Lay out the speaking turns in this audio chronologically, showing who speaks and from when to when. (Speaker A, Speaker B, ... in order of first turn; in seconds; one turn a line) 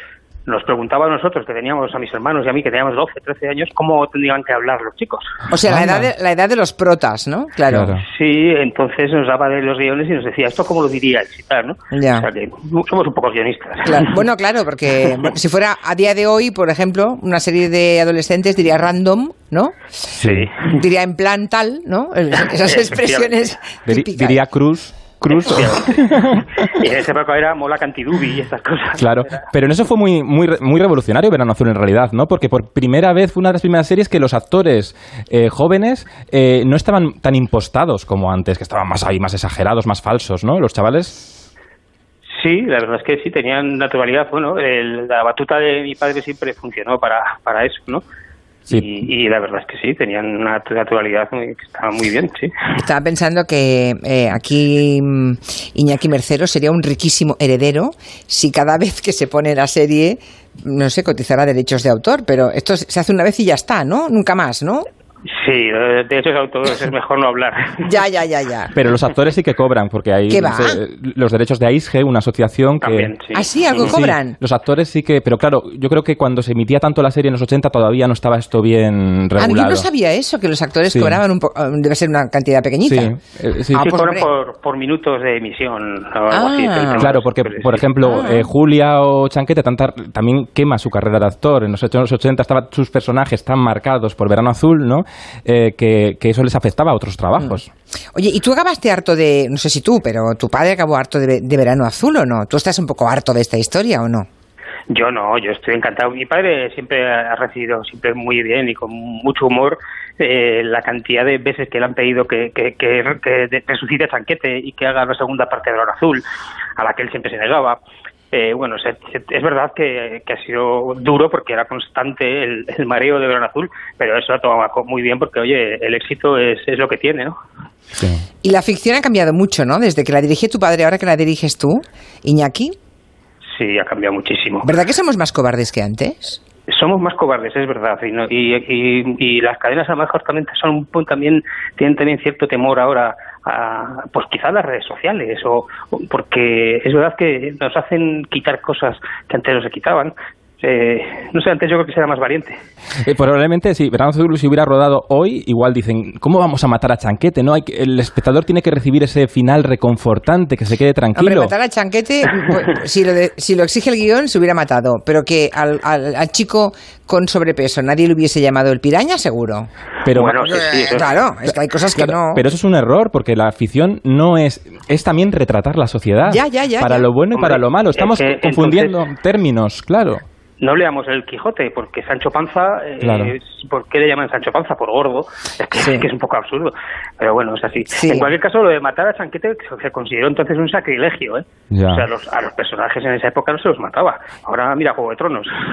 Speaker A: 0.5-5.2
Speaker B: 5.5-8.0
Speaker C: 5.7-6.1
Speaker C: 7.7-8.0
Speaker A: 8.1-14.1
Speaker B: 11.9-12.3
Speaker B: 13.8-19.9
Speaker C: 20.2-20.4
Speaker A: 20.2-20.8
Speaker B: 20.8-24.4
Speaker A: 22.4-23.6
Speaker C: 23.9-26.4
Speaker A: 25.4-29.3
Speaker C: 29.0-41.2
Speaker A: 42.4-48.0
Speaker A: 48.7-52.5
Speaker B: 52.8-64.8
Speaker A: 65.3-67.8
Speaker B: 67.8-68.7
Speaker C: 68.7-73.1
Speaker B: 70.3-70.8
Speaker A: 72.8-74.0
Speaker B: 73.3-74.4
Speaker C: 73.8-79.9
Speaker B: 79.4-83.2
Speaker C: 80.9-81.2
Speaker C: 82.8-83.9
Speaker B: 83.7-84.3
Speaker A: 83.8-87.8
Speaker B: 86.3-87.1
Speaker C: 87.0-97.7
Speaker B: 88.0-88.5
Speaker B: 98.1-104.3
Speaker A: 104.9-116.2
Speaker A: 116.8-117.8
Speaker A: 118.3-127.3
Speaker C: 128.0-128.2
Speaker B: 128.4-132.7
Speaker A: 133.6-134.7
Speaker B: 134.6-136.4
Speaker A: 136.7-152.6
Speaker C: 153.0-161.5
Speaker B: 161.2-169.7
Speaker C: 170.0-170.5
Speaker A: 170.1-171.2
Speaker B: 170.7-172.4
Speaker C: 171.9-180.2
Speaker B: 176.2-177.1
Speaker A: 177.3-178.9
Speaker A: 180.6-195.5
Speaker C: 183.0-183.3
Speaker B: 185.8-186.1
Speaker B: 187.9-188.3
Speaker C: 191.7-192.0